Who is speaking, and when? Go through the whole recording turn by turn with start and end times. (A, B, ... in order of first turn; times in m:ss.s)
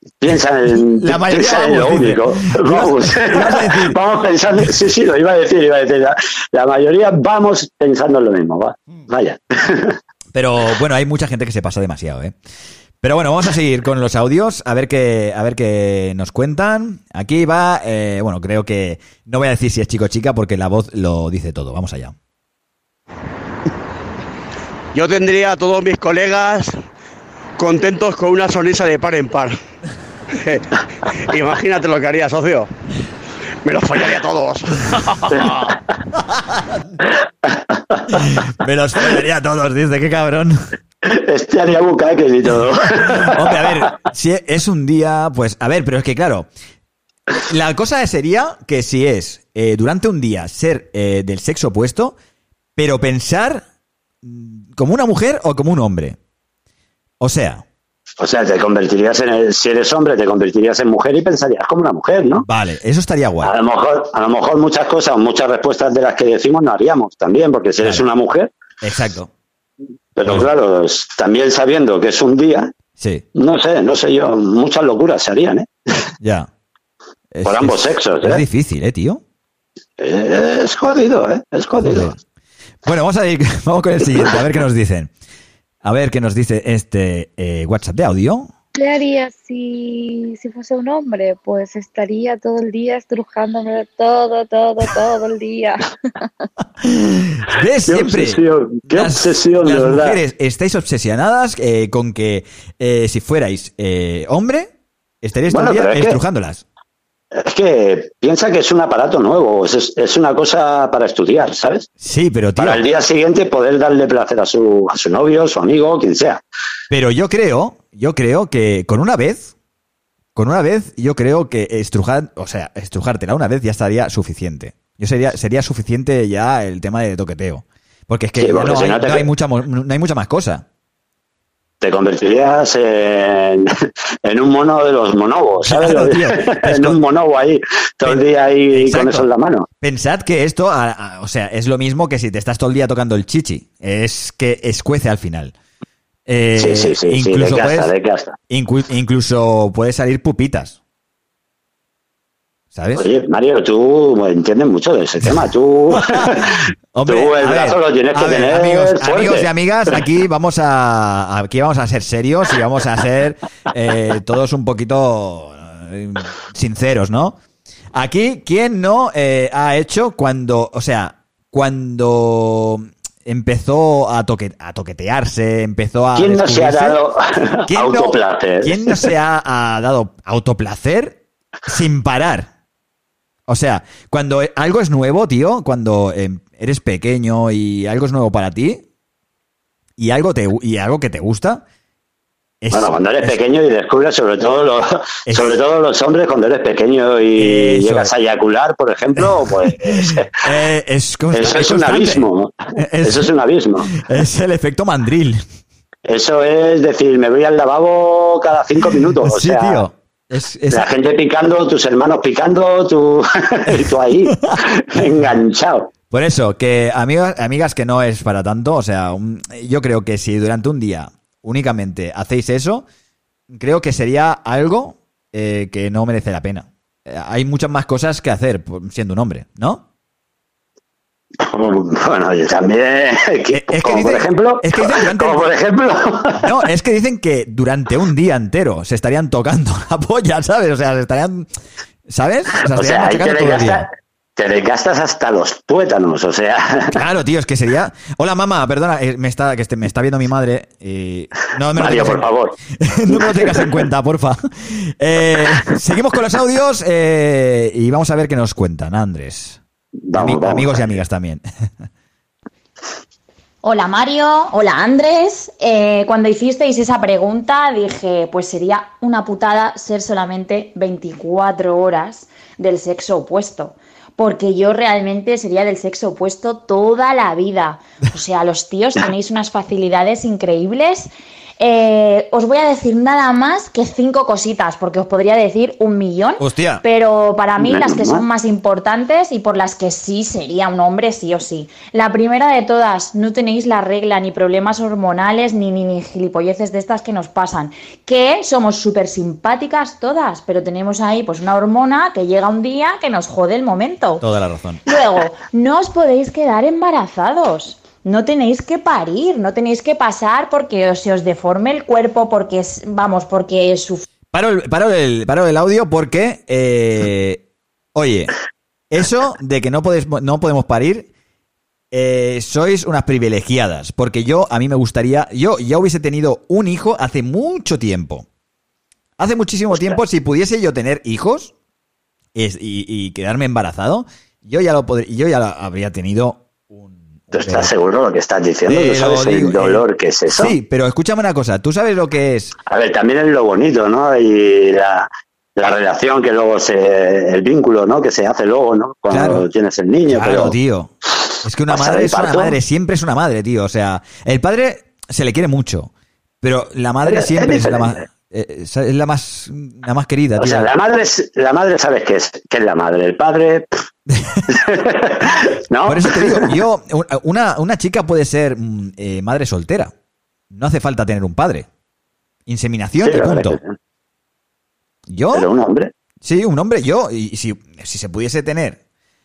0:00.2-0:10.0 A
0:00.7-0:04.0 B
0:10.3-0:12.4 B
0:13.0-0:22.2 B
0:24.9-0:26.8 C
0:27.6-0:29.6 C
0:30.4-0:32.7 C
0:33.6-0:35.7 C
0:38.1-0:40.6 B
0:41.0-0:43.7 A
0:43.0-0:46.5 B
0:47.4-0:52.2 B
0:52.8-0:53.6 B
0:54.2-0:56.2 B
0:57.2-0:57.6 B
0:58.2-1:02.5 A
1:02.4-1:03.5 B
1:03.4-1:08.5 A
1:08.8-1:09.3 B
1:10.2-1:12.7 A
1:13.0-1:13.2 B
1:13.4-1:15.7 A
1:16.2-1:16.5 B
1:17.3-1:19.2 B
1:17.4-1:18.4 A
1:20.0-1:22.1 A
1:21.8-1:22.2 B
1:22.8-1:25.1 B
1:25.8-1:28.5 B
1:28.8-1:35.8 D
1:36.8-1:44.7 B
1:37.9-1:40.2 A
1:45.2-1:46.6 B
1:45.5-1:46.2 A
1:47.3-1:51.9 A
1:52.0-1:52.8 B
1:52.6-1:56.4 A
1:56.9-1:59.5 B
2:00.4-2:10.6 B
2:08.4-2:09.3 A
2:11.8-2:13.7 A
2:14.2-2:19.7 A
2:15.6-2:17.0 B
2:18.0-2:19.3 B
2:19.8-2:25.5 B
2:26.3-2:27.9 B
2:26.6-2:28.4 A
2:28.5-2:30.8 B
2:32.7-2:33.1 B
2:33.0-2:36.6 A
2:36.9-2:47.4 B
2:37.1-2:39.5 A
2:47.9-2:57.0 B
2:56.2-2:59.0 A
2:57.7-3:02.5 B
3:03.5-3:08.8 B
3:10.0-3:11.6 B
3:12.6-3:13.4 B
3:12.7-3:20.3 A
3:15.3-3:15.6 B
3:17.4-3:18.1 B
3:19.2-3:23.3 B
3:21.3-3:23.9 A
3:23.9-3:25.4 B
3:26.1-3:29.8 A
3:29.0-3:30.9 B
3:30.7-3:35.9 A
3:36.1-3:42.8 B
3:43.5-3:49.8 B
3:51.4-3:56.4 A
3:53.5-3:55.5 B
3:56.4-4:01.5 B
4:02.1-4:03.9 B
4:02.7-4:07.0 A
4:06.9-4:19.6 B
4:11.8-4:12.6 A
4:13.1-4:13.7 A
4:20.1-4:21.0 A
4:20.2-4:21.4 B
4:23.6-5:04.2 E
4:46.4-4:46.8 B
4:47.6-4:48.2 A
5:04.2-5:04.8 B
5:04.9-5:14.0 E
5:14.3-5:17.4 B
5:18.0-5:18.3 B
5:18.9-5:21.1 B
5:21.9-5:28.3 B
5:29.2-5:31.5 B
5:32.4-5:37.7 B
5:37.3-5:40.5 A
5:38.7-5:42.6 B
5:42.7-5:50.6 A
5:49.1-5:49.4 B
5:50.1-5:55.9 B
5:51.7-5:52.5 A
5:56.4-6:00.7 B
5:57.0-5:58.0 A
6:00.4-6:03.7 A
6:04.1-6:04.4 B
6:04.5-6:06.6 A
6:05.8-6:09.9 B
6:10.5-6:11.7 B
6:12.5-6:13.6 B
6:13.0-6:13.8 A
6:15.1-6:15.5 B
6:15.3-6:15.9 A
6:16.2-6:18.8 B